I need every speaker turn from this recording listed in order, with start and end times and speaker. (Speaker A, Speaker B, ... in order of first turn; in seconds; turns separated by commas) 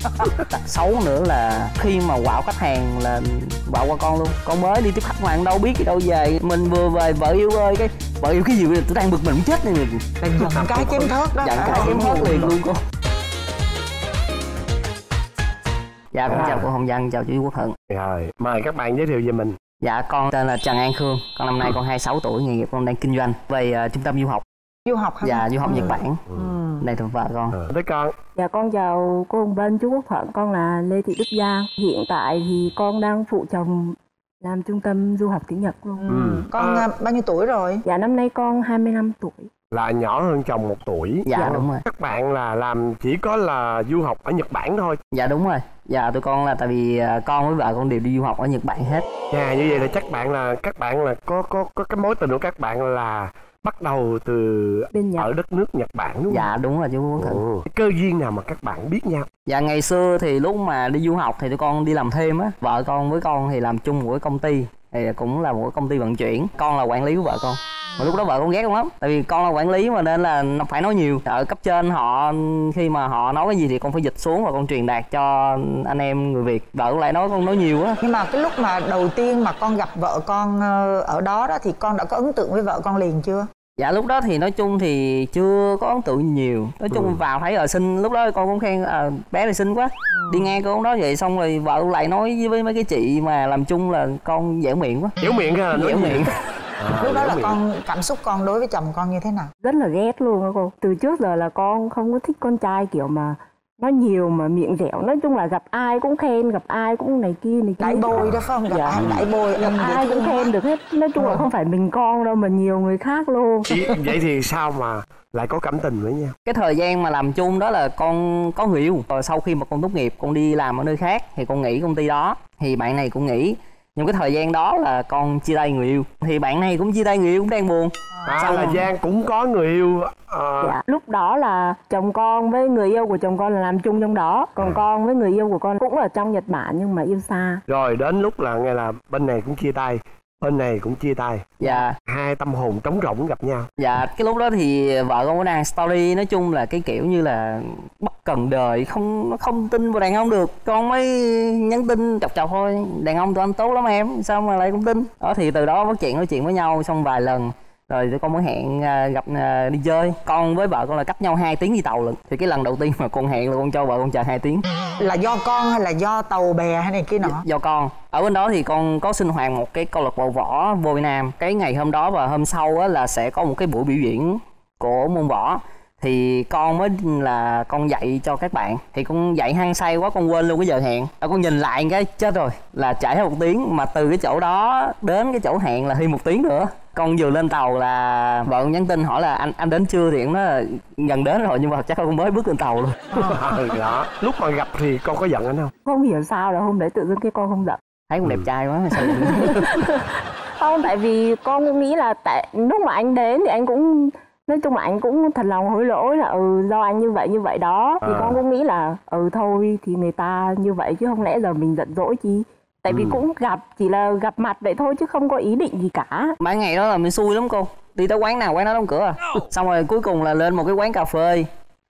Speaker A: 0.5-10.0, Speaker B: 10.2-12.5, Speaker C: 10.4-11.1, Speaker A: 11.4-12.8, Speaker C: 11.7-12.5, Speaker A: 16.1-17.8, Speaker C: 16.3-16.7, Speaker C: 17.9-19.6, Speaker A: 19.8-24.4, Speaker B: 24.9-26.9, Speaker A: 25.2-26.2, Speaker C: 26.3-26.6, Speaker A: 26.8-27.6, Speaker C: 27.5-28.1, Speaker D: 28.4-36.1, Speaker B: 36.0-37.8, Speaker C: 36.1-36.9, Speaker D: 37.8-39.5, Speaker C: 39.7-45.0, Speaker A: 41.2-41.8, Speaker D: 41.4-41.6, Speaker A: 45.1-49.0, Speaker C: 49.3-56.5, Speaker D: 54.9-55.3, Speaker A: 56.3-57.4, Speaker C: 57.2-59.3, Speaker A: 59.5-78.0, Speaker B: 67.9-68.2, Speaker B: 78.0-83.5, Speaker A: 83.8-95.1, Speaker C: 86.9-87.2, Speaker B: 90.1-90.5, Speaker C: 95.2-97.6, Speaker A: 95.7-96.3, Speaker B: 97.0-99.5, Speaker D: 99.6-109.0, Speaker B: 107.8-110.5, Speaker C: 108.1-108.4, Speaker C: 108.9-109.3, Speaker D: 109.5-113.7, Speaker B: 111.2-111.4, Speaker C: 113.7-116.3, Speaker A: 116.5-128.8, Speaker B: 128.2-128.6, Speaker C: 128.3-130.8, Speaker D: 130.6-137.6, Speaker C: 137.7-143.7, Speaker A: 141.6-141.9, Speaker A: 143.8-164.6, Speaker B: 165.0-167.4, Speaker A: 167.2-193.0, Speaker C: 193.1-195.7, Speaker D: 195.8-197.8, Speaker A: 198.1-199.7, Speaker D: 198.9-216.3, Speaker C: 208.0-208.4, Speaker C: 212.9-213.2, Speaker A: 216.4-221.5